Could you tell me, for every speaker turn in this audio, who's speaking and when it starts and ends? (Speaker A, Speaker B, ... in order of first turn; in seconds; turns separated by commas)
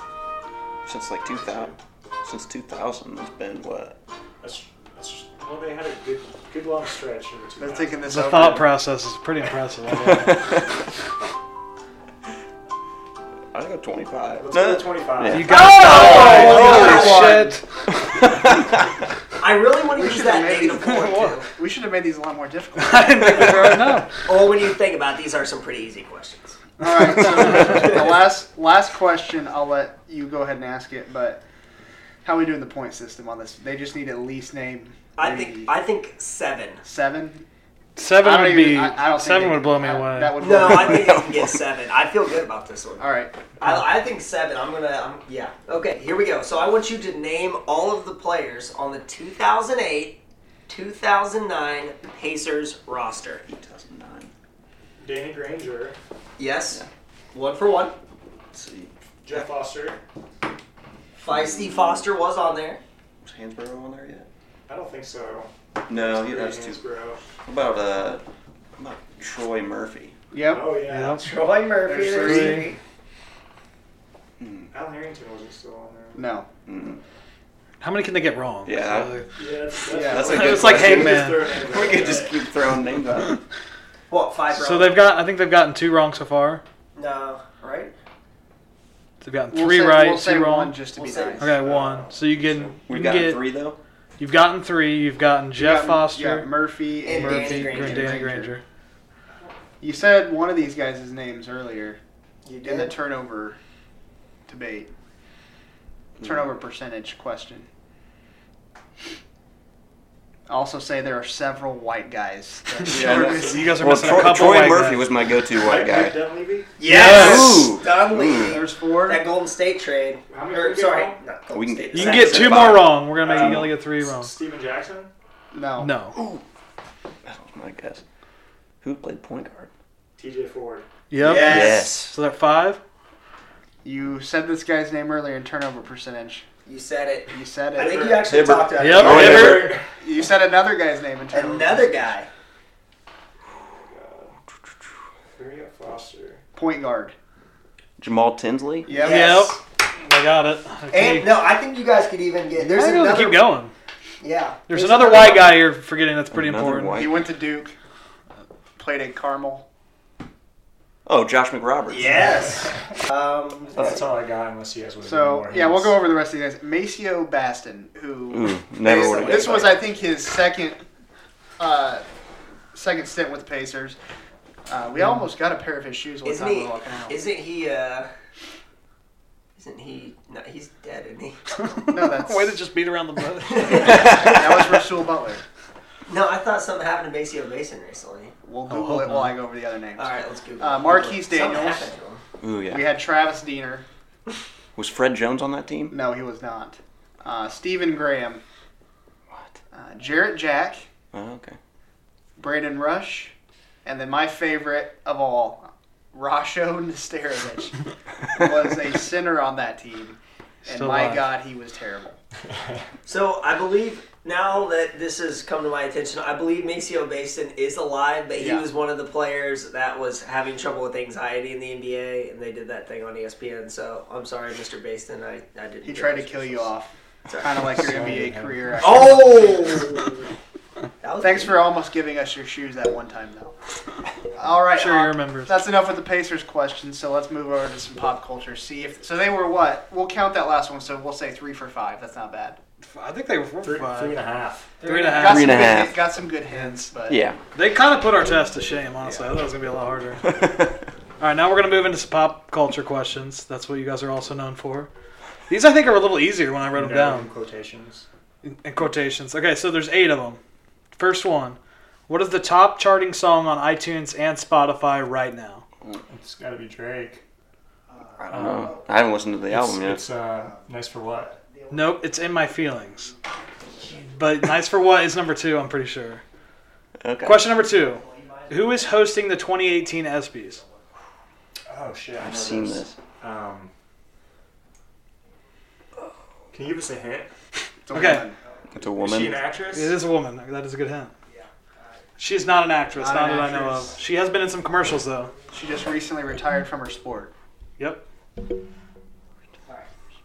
Speaker A: 0.8-4.0, Speaker B: 1.2-1.8, Speaker B: 4.4-8.2, Speaker C: 7.6-8.7, Speaker D: 8.1-10.5, Speaker A: 10.0-10.8, Speaker A: 13.5-15.4, Speaker B: 14.4-15.5, Speaker D: 15.3-17.6, Speaker E: 15.5-17.5, Speaker C: 15.7-17.6, Speaker B: 16.0-17.0, Speaker A: 18.0-18.9, Speaker E: 19.4-21.5, Speaker C: 19.9-23.7, Speaker D: 20.8-21.4, Speaker D: 22.8-24.1, Speaker E: 24.2-26.6, Speaker C: 26.8-31.4, Speaker D: 26.8-27.9, Speaker C: 32.2-35.7, Speaker E: 35.1-36.8, Speaker C: 36.8-37.5, Speaker D: 38.0-40.4, Speaker C: 38.1-41.3, Speaker E: 40.4-53.4, Speaker A: 40.6-41.5, Speaker C: 43.0-43.4, Speaker A: 53.5-54.3, Speaker B: 55.0-56.0, Speaker E: 56.4-56.8, Speaker E: 57.3-58.0, Speaker A: 58.5-59.5, Speaker B: 59.2-60.0, Speaker E: 61.2-62.8, Speaker A: 61.3-62.0, Speaker A: 63.2-64.3, Speaker B: 64.7-67.2, Speaker A: 65.9-66.8, Speaker A: 67.5-68.2, Speaker A: 68.8-70.2, Speaker C: 70.3-70.8, Speaker B: 70.5-71.2, Speaker D: 70.9-71.2, Speaker E: 71.0-72.8, Speaker C: 71.9-72.7, Speaker D: 72.1-72.7, Speaker A: 74.4-74.7, Speaker B: 74.7-76.3, Speaker C: 76.1-76.5, Speaker A: 76.7-77.0, Speaker D: 77.8-79.2, Speaker A: 78.7-79.2, Speaker B: 79.3-82.4, Speaker C: 79.9-80.5, Speaker A: 80.0-83.4, Speaker D: 80.3-81.4, Speaker E: 84.1-85.0, Speaker D: 84.5-86.6, Speaker E: 86.9-87.9, Speaker D: 89.2-90.8, Speaker C: 89.5-91.6, Speaker E: 91.0-91.4, Speaker D: 91.4-93.4, Speaker B: 91.5-92.8, Speaker A: 92.8-93.8, Speaker D: 94.2-96.5, Speaker C: 95.6-98.5, Speaker E: 97.0-98.2, Speaker D: 97.2-98.6, Speaker C: 99.8-102.0, Speaker E: 102.5-102.9, Speaker C: 102.6-103.6, Speaker C: 104.5-104.9, Speaker C: 106.2-107.7, Speaker C: 110.5-113.8, Speaker A: 112.9-116.2, Speaker B: 113.0-114.3, Speaker D: 113.4-115.0, Speaker B: 115.5-116.8, Speaker E: 116.8-123.0, Speaker D: 116.8-117.7, Speaker A: 116.9-118.6, Speaker C: 118.4-119.2, Speaker B: 120.3-121.2, Speaker A: 121.5-123.7, Speaker D: 121.9-124.3, Speaker B: 123.1-125.1, Speaker C: 125.5-125.9, Speaker D: 125.8-126.2, Speaker A: 126.1-126.4, Speaker A: 127.2-128.0, Speaker A: 128.8-129.7, Speaker B: 130.2-130.9, Speaker D: 131.1-132.8, Speaker E: 131.2-131.9, Speaker A: 131.3-132.1, Speaker C: 133.8-136.4, Speaker E: 136.7-139.6, Speaker C: 137.3-138.2, Speaker B: 137.8-139.9, Speaker A: 138.2-139.8, Speaker D: 138.8-139.7, Speaker C: 140.0-142.0, Speaker E: 141.3-142.3, Speaker B: 143.6-144.4, Speaker B: 145.3-146.4, Speaker C: 146.5-147.1, Speaker A: 148.0-148.9, Speaker C: 148.8-149.5, Speaker E: 148.9-149.6, Speaker D: 149.0-151.4, Speaker E: 150.9-153.4, Speaker D: 152.6-153.7, Speaker E: 154.2-155.6, Speaker D: 154.7-157.0, Speaker A: 156.3-157.3, Speaker C: 156.9-157.7, Speaker C: 158.8-159.7, Speaker A: 161.1-162.2, Speaker E: 161.9-163.9, Speaker B: 162.1-162.9, Speaker B: 163.8-165.9, Speaker C: 165.0-170.8, Speaker A: 168.3-169.8, Speaker E: 168.9-169.8, Speaker C: 171.6-172.0, Speaker C: 172.7-174.0, Speaker C: 174.7-177.2, Speaker E: 176.2-178.1, Speaker E: 179.6-181.4, Speaker D: 181.6-184.3, Speaker C: 181.9-182.6, Speaker E: 183.4-184.2, Speaker C: 183.8-185.4, Speaker E: 186.1-188.3, Speaker C: 188.4-191.9, Speaker D: 188.7-189.3, Speaker E: 190.0-192.2, Speaker A: 192.4-192.8, Speaker C: 192.7-193.8, Speaker A: 194.8-195.9, Speaker C: 195.9-198.4, Speaker A: 199.3-199.6, Speaker C: 199.7-200.9, Speaker A: 201.1-201.6, Speaker C: 202.4-212.2, Speaker D: 210.6-211.3, Speaker E: 213.1-226.7, Speaker C: 218.3-218.7, Speaker C: 225.8-229.9, Speaker E: 227.2-227.8, Speaker B: 227.8-229.1, Speaker E: 228.8-230.2, Speaker E: 231.0-231.6, Speaker C: 231.2-233.5, Speaker C: 234.3-242.6, Speaker D: 234.8-235.6, Speaker D: 242.9-244.2, Speaker B: 243.6-244.8, Speaker D: 244.8-245.7, Speaker E: 244.8-245.6, Speaker C: 245.1-247.2, Speaker A: 245.2-246.0, Speaker D: 246.5-246.9, Speaker A: 247.1-247.4, Speaker D: 247.5-250.2, Speaker A: 250.3-250.7, Speaker D: 251.2-254.9, Speaker D: 255.5-257.3, Speaker B: 256.7-258.1, Speaker D: 258.4-260.4, Speaker D: 261.0-265.6, Speaker B: 266.1-267.2, Speaker C: 267.9-268.8, Speaker A: 268.2-270.2, Speaker B: 268.3-268.8, Speaker B: 269.5-271.3, Speaker C: 271.3-272.4, Speaker D: 271.7-273.1, Speaker C: 272.9-273.2, Speaker D: 274.1-276.2, Speaker A: 277.0-277.6, Speaker D: 277.2-280.6, Speaker C: 278.0-278.5, Speaker B: 281.7-283.7, Speaker A: 282.2-283.0, Speaker B: 286.5-287.3, Speaker C: 287.9-288.4, Speaker D: 287.9-288.2, Speaker A: 288.7-289.5, Speaker B: 289.0-290.0, Speaker D: 289.7-291.1, Speaker D: 292.2-295.3, Speaker C: 293.0-294.0, Speaker C: 295.5-297.3, Speaker D: 297.8-298.0